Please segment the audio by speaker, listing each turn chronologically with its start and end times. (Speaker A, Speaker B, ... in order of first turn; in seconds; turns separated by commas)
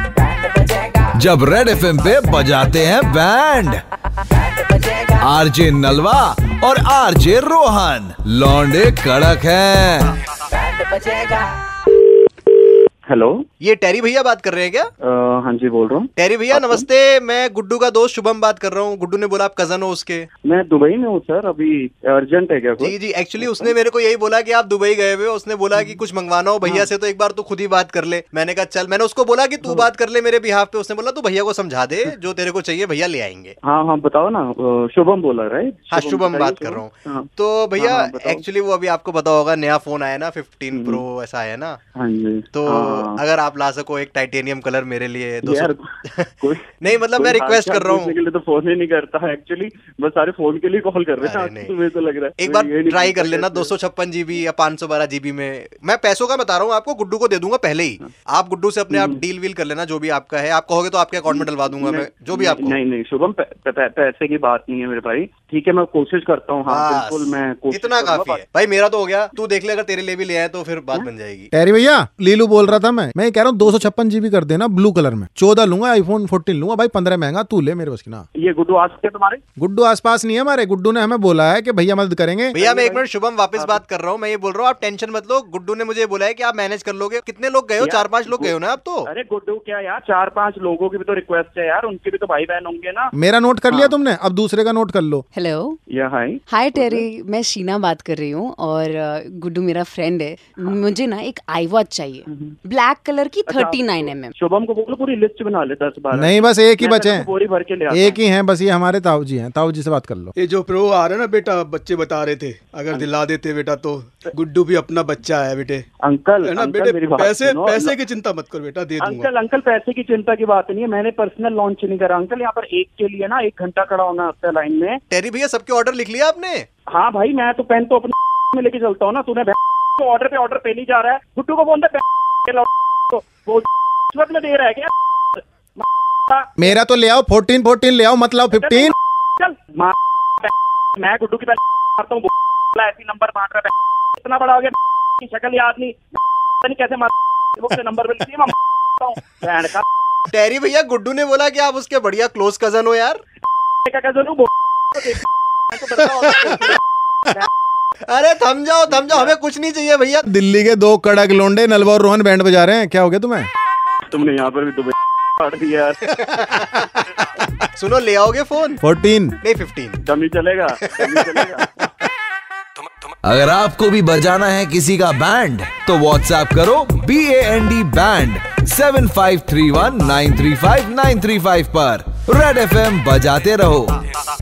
Speaker A: 1.1-3.8, Speaker A: 5.2-10.1, Speaker B: 13.1-13.4, Speaker C: 13.6-14.9, Speaker B: 15.0-16.8, Speaker C: 16.2-20.3, Speaker B: 20.4-23.7, Speaker C: 22.8-33.5, Speaker B: 33.6-38.4, Speaker C: 35.9-41.8, Speaker B: 40.7-41.0, Speaker B: 41.9-43.2, Speaker C: 42.5-48.1, Speaker B: 45.4-45.9, Speaker B: 46.4-53.7, Speaker C: 51.2-51.7, Speaker C: 52.4-62.8, Speaker B: 58.9-59.2, Speaker B: 61.3-68.4, Speaker C: 66.7-71.5, Speaker D: 71.5-78.2, Speaker B: 78.3-79.4, Speaker D: 79.6-82.5, Speaker C: 82.5-89.1, Speaker B: 82.6-83.8, Speaker B: 87.8-88.5, Speaker B: 89.0-93.1, Speaker D: 93.2-95.2, Speaker B: 93.7-93.9, Speaker E: 95.3-95.8, Speaker B: 95.9-97.0, Speaker E: 96.5-104.3, Speaker B: 102.3-102.5, Speaker B: 103.5-108.2, Speaker D: 106.1-107.3, Speaker D: 107.9-110.3, Speaker F: 110.3-115.8, Speaker B: 116.0-118.0, Speaker F: 116.4-119.3, Speaker B: 119.0-125.0, Speaker C: 125.1-126.7, Speaker B: 126.9-134.9, Speaker B: 135.8-136.7, Speaker D: 136.6-138.9, Speaker B: 138.5-146.0, Speaker B: 146.6-149.8, Speaker C: 150.3-153.2, Speaker B: 153.8-156.8, Speaker C: 158.1-160.2, Speaker B: 158.9-159.3, Speaker D: 160.2-163.5, Speaker B: 164.1-166.1, Speaker C: 166.3-166.8, Speaker C: 167.7-168.8, Speaker D: 168.8-169.4, Speaker C: 169.4-170.0, Speaker B: 170.0-171.8, Speaker A: 173.2-184.0